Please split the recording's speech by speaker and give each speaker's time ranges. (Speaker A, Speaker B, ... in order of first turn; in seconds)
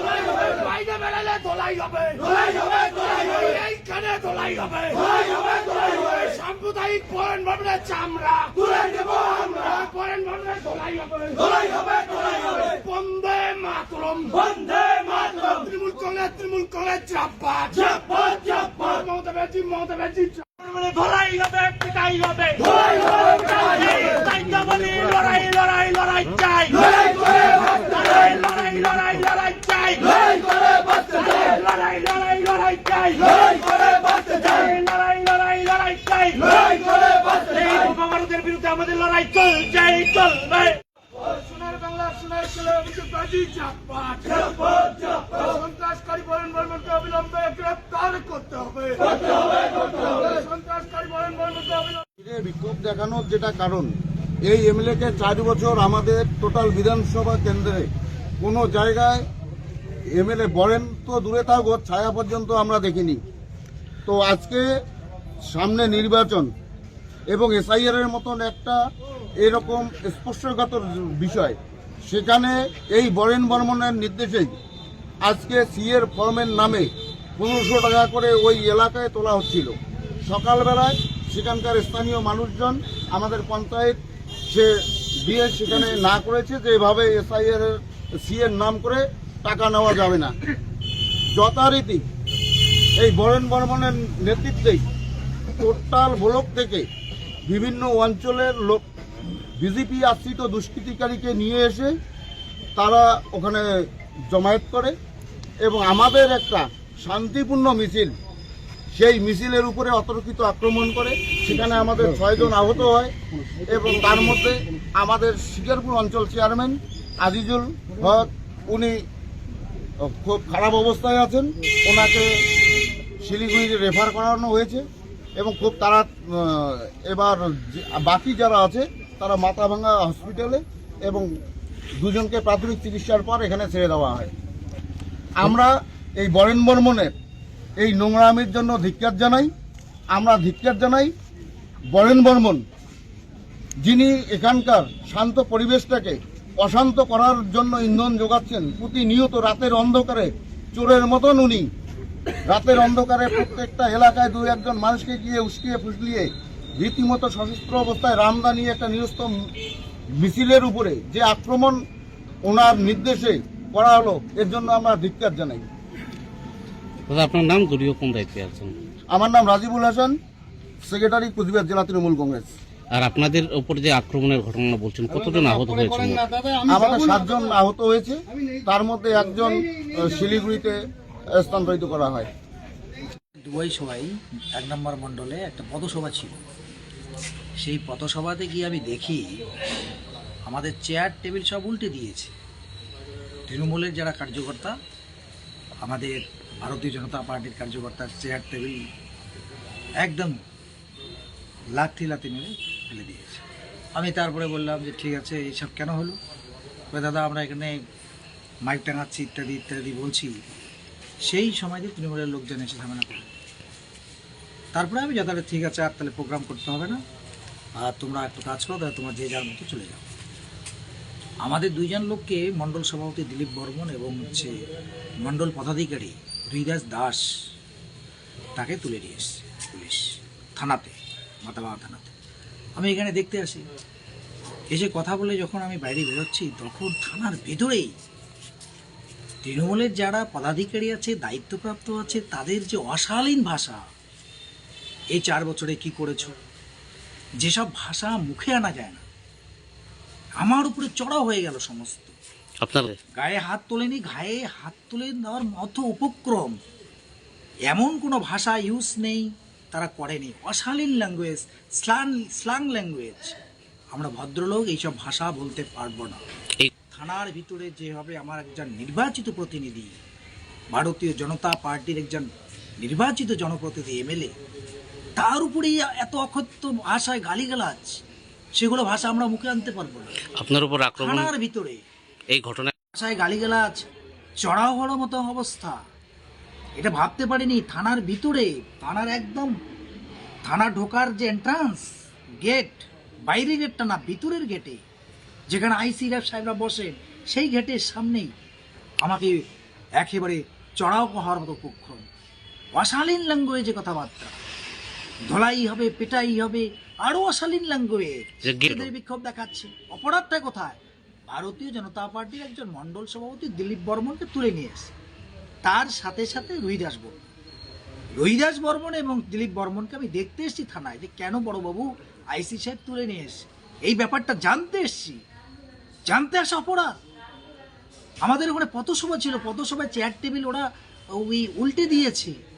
Speaker A: 0.2-30.4, 31.0-40.7, 41.9-44.5, 45.0-51.9
Speaker B: 52.2-53.9, 54.4-57.9, 58.4-59.2, 60.1-63.2, 64.0-64.7, 65.5-66.5, 67.3-68.8, 69.4-71.6, 72.1-74.5, 75.2-79.7, 80.2-90.3, 91.3-92.0, 93.0-94.8, 95.6-96.8, 97.5-98.8, 99.6-101.9, 102.8-104.9, 105.6-108.1, 108.9-113.1, 113.6-119.0, 120.0-122.3, 123.2-124.8, 125.4-131.3, 131.9-134.3, 135.3-137.1, 137.8-139.5, 140.1-141.1, 141.9-142.6, 143.8-151.7, 152.4-159.5, 160.2-161.8, 162.4-165.7, 169.1-170.2, 170.8-172.5, 176.7-180.8, 181.3-182.3
Speaker C: 167.1-168.7, 172.9-176.2, 252.6-253.0, 280.3-281.3, 282.3-282.7
Speaker D: 183.4-186.4, 187.6-189.4, 190.5-192.3, 193.5-194.7, 195.8-198.8, 200.0-200.3, 201.8-203.4, 204.0-206.2, 206.9-207.8, 208.6-210.3, 211.2-213.3, 214.8-217.0, 217.8-220.1, 221.4-224.5, 225.2-227.2, 228.6-232.1, 232.8-233.6, 234.7-237.9, 239.4-243.8, 245.1-246.3, 247.4-249.0, 250.4-252.1, 253.2-256.6, 257.7-263.4, 263.9-266.2, 266.9-269.9, 270.7-274.3, 275.2-277.9, 278.6-280.1, 280.9-281.8, 282.9-283.8, 284.4-285.8, 286.8-289.5, 290.4-291.9, 292.4-294.8, 295.5-298.3, 299.0-299.4, 300.0-302.1, 302.7-304.4, 305.3-314.9, 315.6-317.2, 318.2-325.2, 326.1-326.9, 328.2-330.6, 331.2-332.4